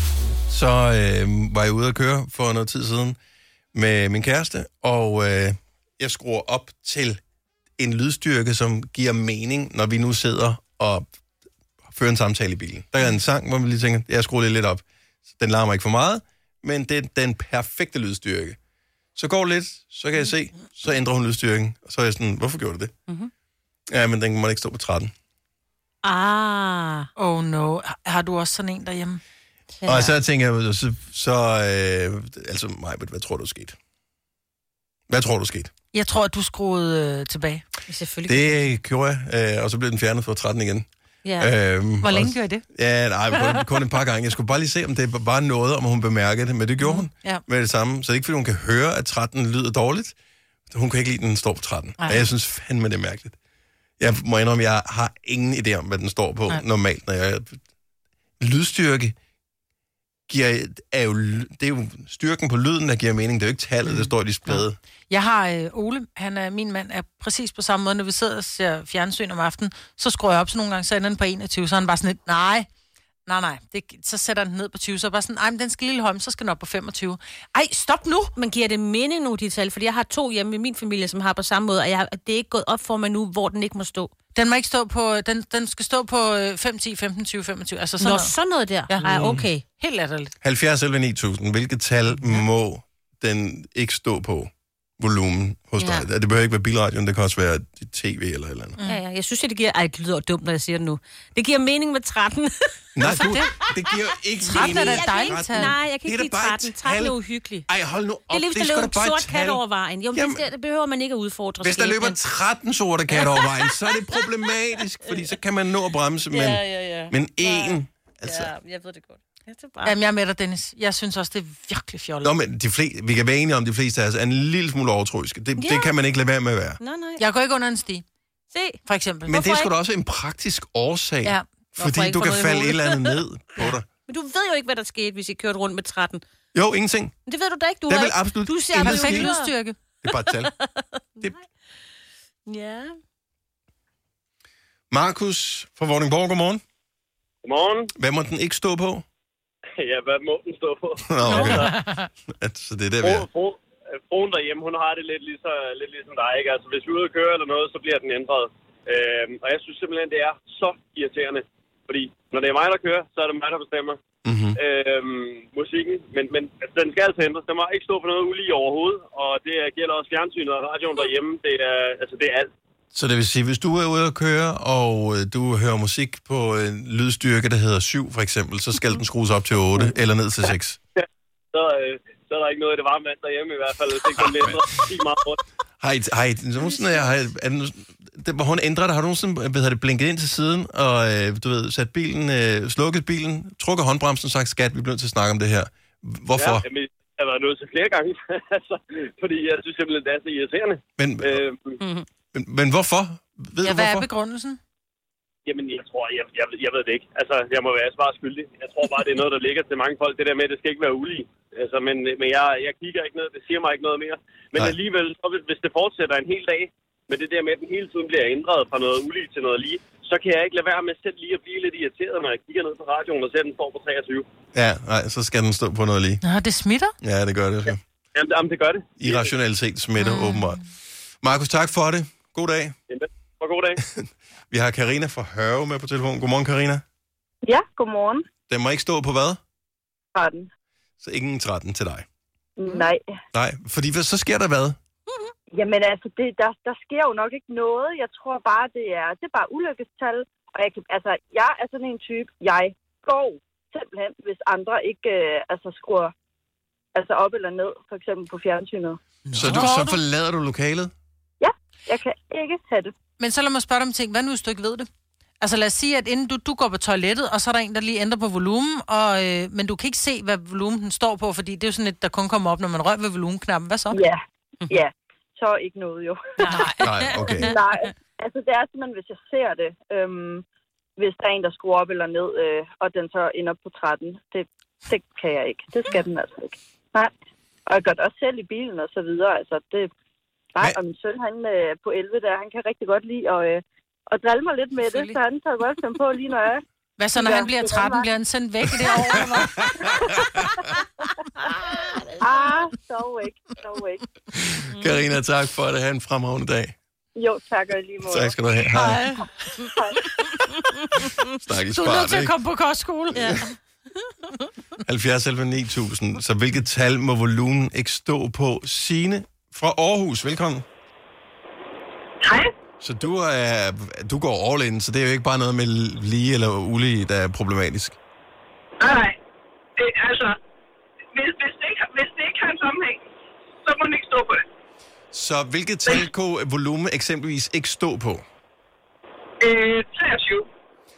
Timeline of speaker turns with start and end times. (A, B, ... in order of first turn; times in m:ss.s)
0:00.5-0:03.2 A
0:03.7-0:07.2 A
0:07.8-0:11.0 A
0:11.9-0:18.6 A
0:19.2-0:22.9 A
0:23.9-0:25.1 A
0:26.0-0:27.1 B
0:27.2-0:29.2 C
0:29.8-0:30.0 B
0:29.8-0:33.7 A
0:35.1-0:35.7 A
0:35.9-0:37.7 C
0:37.9-0:38.6 B
0:38.3-0:40.8 A
0:41.2-0:41.5 B
0:41.4-0:50.1 A
0:42.0-0:42.6 C
0:50.7-0:53.4 A
0:54.0-0:57.6 A
0:58.4-0:59.1 A
1:00.3-1:04.8 A
1:04.0-1:12.7 C
1:13.2-1:18.4 C
1:18.4-1:24.1 B
1:24.3-1:29.0 C
1:28.0-1:29.6 B
1:29.0-1:29.5 A
1:29.7-1:30.3 C
1:30.4-1:38.8 A
1:35.8-1:36.1 B
1:38.8-1:42.8 B
1:42.9-1:49.6 A
1:43.1-1:43.5 C
1:44.5-1:47.6 B
1:44.6-1:45.7 C
1:48.3-1:52.2 B
1:50.1-1:50.5 A
1:51.6-1:58.5 A
1:53.1-1:53.9 B
1:56.3-2:00.0 B
1:59.8-2:02.3 C
2:02.2-2:06.8 A
2:05.6-2:05.9 B
2:06.8-2:07.2 B
2:07.2-2:08.0 C
2:08.5-2:09.7 B
2:08.8-2:09.3 C
2:09.2-2:13.9 A
2:11.8-2:13.2 B
2:14.1-2:16.2 B
2:16.5-2:17.2 A
2:17.2-2:19.6 B
2:17.9-2:19.4 A
2:18.8-2:19.8 C
2:20.0-2:20.5 A
2:22.4-2:23.0 B
2:24.9-2:26.6 A
2:27.4-2:27.9 D
2:27.9-2:29.0 A
2:29.8-2:31.7 D
2:31.1-2:31.8 A
2:32.4-2:33.3 A
2:33.0-2:44.0 D
2:44.2-2:44.6 A
2:44.6-2:52.5 D
2:52.9-3:00.8 A
3:01.5-3:05.4 D
3:05.8-3:16.6 A
3:16.4-3:21.8 D
3:21.0-3:21.4 A
3:21.8-3:22.0 B
3:22.3-3:24.1 A
3:23.6-3:24.6 C
3:25.4-3:44.2 D
3:44.5-3:46.2 A
3:46.2-3:46.9 C
3:47.0-3:47.8 A
3:48.1-3:49.3 D
3:49.0-3:50.7 A
3:50.0-3:50.5 C
3:51.2-3:52.7 A
3:52.9-3:53.8 D
3:53.9-3:56.8 A
3:57.4-3:58.2 E
3:58.5-3:59.4 A
4:00.1-4:00.5 E
4:01.0-4:02.0 A
4:02.6-4:03.0 E
4:03.3-4:04.8 A
4:05.5-4:16.1 E
4:16.9-4:19.0 E
4:19.3-4:20.9 A
4:19.4-4:20.0 C
4:21.4-4:22.9 E
4:23.2-4:24.9 C
4:25.4-4:34.0 C
4:33.9-4:40.4 E
4:36.4-4:36.8 C
4:36.8-4:37.6 A
4:41.0-4:47.1 E
4:47.7-4:49.9 E
4:50.5-4:58.1 E
4:57.0-4:59.4 C
4:59.3-5:00.6 A
5:02.2-5:04.0 E
5:04.3-5:06.7 A
5:07.1-5:08.4 E
5:08.0-5:09.1 A
5:11.4-5:12.4 A
5:11.7-5:13.2 C
5:13.1-5:13.5 B
5:14.8-5:20.6 A
5:22.2-5:22.5 F
5:22.8-5:28.0 A
5:28.8-5:29.2 F
5:29.8-5:30.4 F
5:31.1-5:33.0 F
5:33.6-5:34.4 F
5:35.1-5:38.2 A
5:39.4-5:40.5 F